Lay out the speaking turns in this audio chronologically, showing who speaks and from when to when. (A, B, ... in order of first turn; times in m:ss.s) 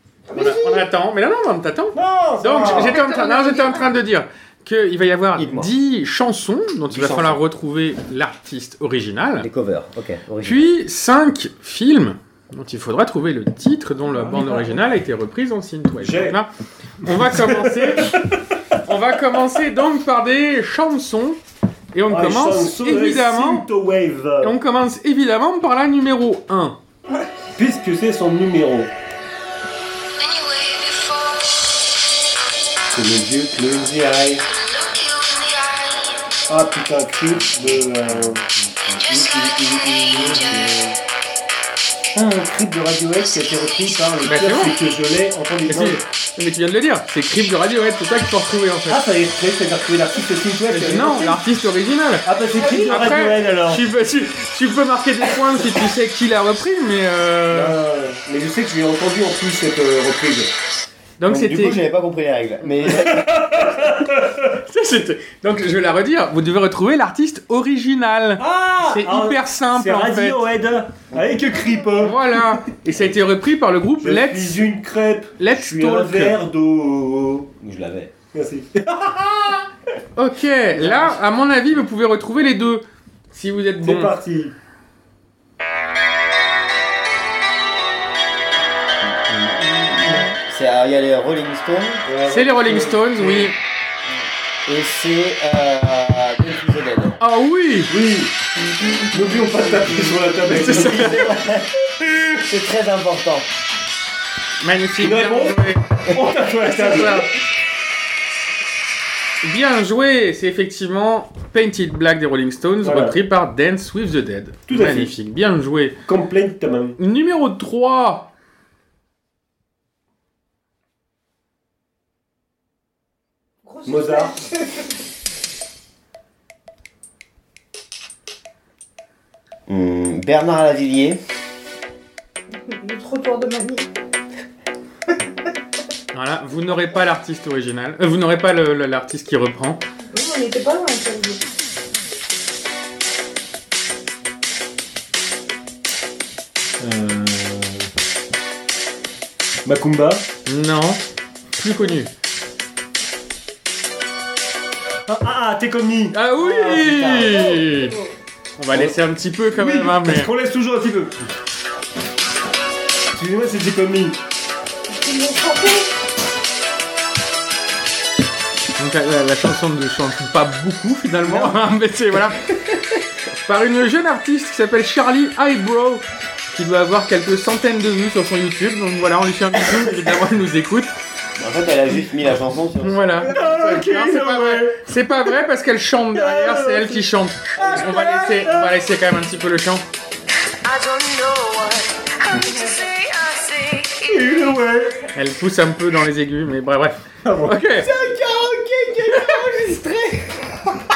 0:00.3-0:00.8 A
0:00.3-0:09.5 B
0:01.9-0:03.0 C
0:02.7-0:03.9 D
0:05.4-0:05.7 A
0:06.9-0:07.4 A
0:09.4-0:10.7 A
0:10.4-0:16.5 B
0:14.1-0:14.8 C
0:16.0-0:16.4 C
0:17.0-0:18.2 B
0:17.1-0:18.4 C
0:18.8-0:21.4 B
0:21.9-0:23.7 B
0:22.1-0:24.6 C
0:24.4-0:26.8 B
0:27.6-0:28.9 C
0:30.4-0:31.3 E
0:32.9-0:34.4 C
0:35.0-0:35.7 E
0:36.5-0:38.4 C
0:39.0-0:41.0 C
0:39.4-0:40.7 A
0:42.1-0:46.0 C
0:44.2-0:44.8 B
0:45.7-0:49.0 B
0:48.9-0:51.4 C
0:50.7-0:52.3 B
0:52.2-0:53.8 C
0:52.5-0:53.2 D
0:52.9-0:57.8 B
0:57.5-1:00.5 C
1:01.2-1:01.8 B
1:01.3-1:03.3 A
1:02.8-1:04.6 C
1:04.7-1:10.4 B
1:08.4-1:12.4 C
1:12.0-1:14.6 B
1:14.0-1:17.5 C
1:15.4-1:16.4 B
1:17.6-1:18.1 A
1:18.3-1:19.7 C
1:20.2-1:24.1 B
1:20.8-1:21.2 C
1:23.8-1:24.5 C
1:29.0-1:32.1 A
1:32.1-1:33.5 C
1:32.3-1:33.6 B
1:34.7-1:37.2 A
1:37.2-1:37.9 B
1:37.9-1:38.3 C
1:39.1-1:41.6 C
1:40.5-1:41.2 B
1:40.5-1:41.7 A
1:42.4-1:43.5 A
1:44.6-1:47.3 B
1:45.0-1:47.3 C
1:49.4-1:56.0 B
1:52.8-1:53.2 C
1:54.7-1:55.1 C
1:56.1-1:57.0 C
1:57.0-1:58.3 B
2:03.7-2:04.9 D
2:03.9-2:04.3 C
2:09.7-2:11.2 A
2:12.7-2:13.9 D
2:16.1-2:19.8 B
2:20.1-2:21.4 D
2:26.8-2:27.9 C
2:29.6-2:30.2 C
2:30.5-2:31.0 B
2:31.6-2:32.1 B
2:35.1-2:37.1 C
2:36.1-2:37.9 B
2:36.4-2:37.8 A
2:38.6-2:40.3 B
2:38.7-2:41.3 C
2:43.1-2:44.2 C
2:44.9-2:45.9 D
2:48.8-2:52.6 B
2:53.2-3:00.9 B
3:01.4-3:03.1 A
3:02.8-3:09.8 B
3:03.2-3:04.8 C
3:06.1-3:08.7 C
3:10.6-3:14.0 E
3:14.1-3:15.1 C
3:15.1-3:17.9 B
3:17.2-3:17.6 C
3:17.8-3:20.8 A